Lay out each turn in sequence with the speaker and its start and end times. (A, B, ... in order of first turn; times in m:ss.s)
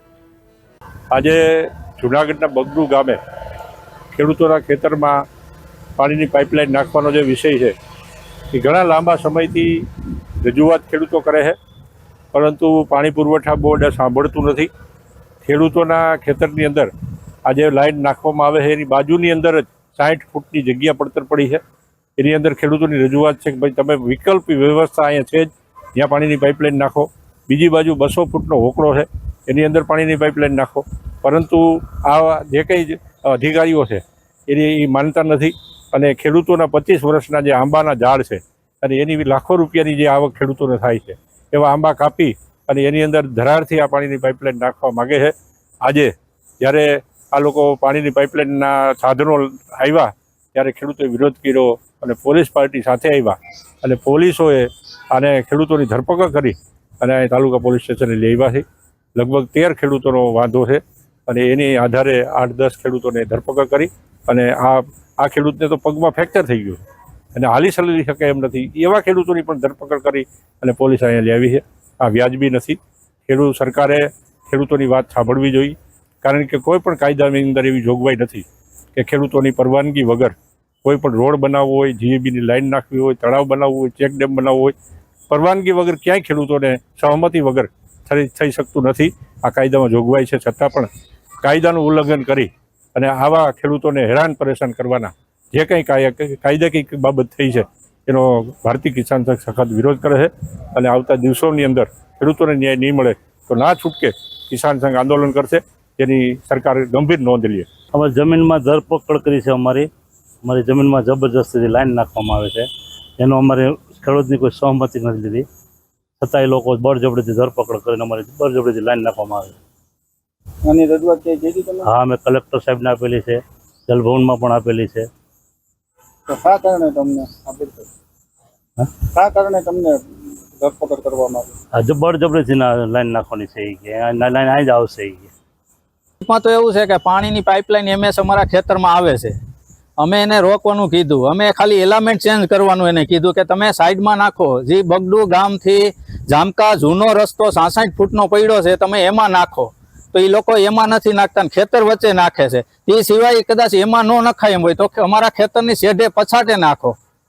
0:01.1-0:03.2 A
0:04.1-0:05.2 A
0:06.0-0:07.7 A
0:08.5-0:09.8 A
0:10.4-0:11.5 A
0:12.3-0:14.7 A
0:15.4-0:16.9 A
0:17.4-0:21.6 A
0:22.2-0:45.3 A
0:45.8-0:58.6 A
0:59.2-1:06.8 A
1:07.3-1:18.4 A
1:19.0-1:24.7 A
1:25.3-1:30.9 A
1:31.4-1:47.7 A
1:47.9-1:49.9 B
1:50.4-1:52.6 B
1:53.2-1:55.4 B
1:56.2-1:59.6 B
2:00.7-2:01.8 C
2:01.8-2:05.1 B
2:06.3-2:07.8 C
2:09.2-2:09.9 C
2:10.6-2:11.5 C
2:11.8-2:15.3 B
2:16.2-2:19.3 D
2:20.0-2:37.0 D